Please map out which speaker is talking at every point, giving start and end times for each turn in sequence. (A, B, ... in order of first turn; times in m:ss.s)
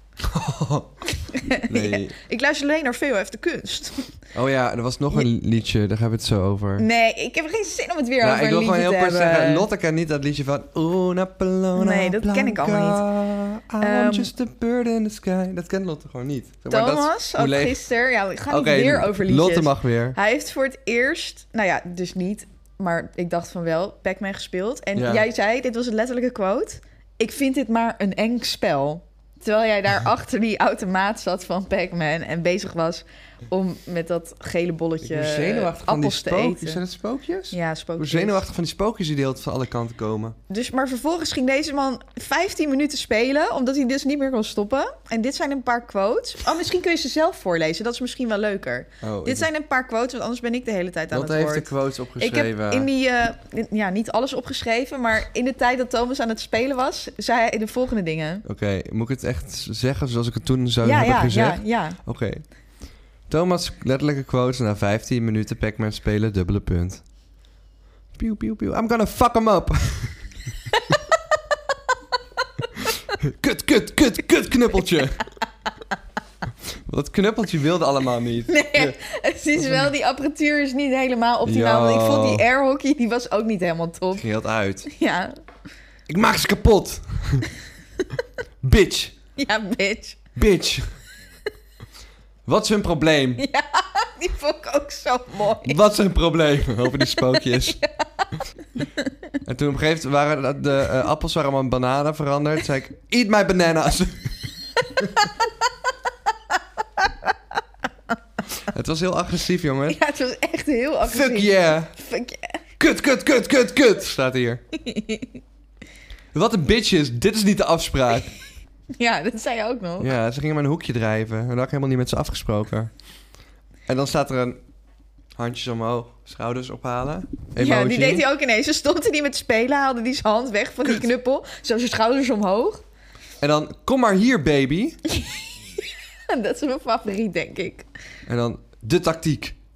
0:00.2-0:01.0 A
0:01.2-0:04.2 B
0:01.7-0:02.2 A
0:04.3-0:06.9 A
0:06.8-0:09.7 B
0:08.2-0:17.9 A
0:11.7-0:13.0 B
0:13.8-0:14.3 B
0:16.7-0:36.8 B
0:18.5-0:20.2 A
0:25.0-0:25.2 A
0:35.0-0:40.4 A
0:37.5-0:38.4 B
0:40.5-0:58.4 B
0:49.0-0:49.5 A
0:51.1-0:52.9 A
0:58.4-1:02.4 A
1:00.8-1:02.0 B
1:03.3-1:07.0 A
1:08.2-1:10.2 A
1:12.8-1:15.2 A
1:16.8-1:19.0 A
1:18.5-1:24.2 B
1:19.6-1:19.9 A
1:21.4-1:22.4 A
1:24.1-1:24.9 A
1:24.8-1:25.3 B
1:26.1-1:27.5 A
1:28.6-1:29.2 A
1:29.4-1:30.2 B
1:30.4-1:30.9 A
1:32.4-1:33.4 A
1:33.4-1:35.8 B
1:35.6-1:37.8 A
1:37.0-1:38.4 B
1:39.4-1:44.4 A
1:45.0-1:45.4 B
1:47.0-1:47.3 B
1:48.7-1:50.0 A
1:49.9-1:52.6 B
1:51.0-1:51.9 A
1:52.8-1:54.6 A
1:54.7-1:55.4 B
1:56.3-1:58.3 A
1:59.0-2:00.1 B
2:00.0-2:02.9 A
2:03.9-2:04.6 A
2:05.4-2:08.2 A
2:07.6-2:12.8 B
2:13.4-2:15.0 A
2:15.1-2:17.8 B
2:18.2-2:19.6 A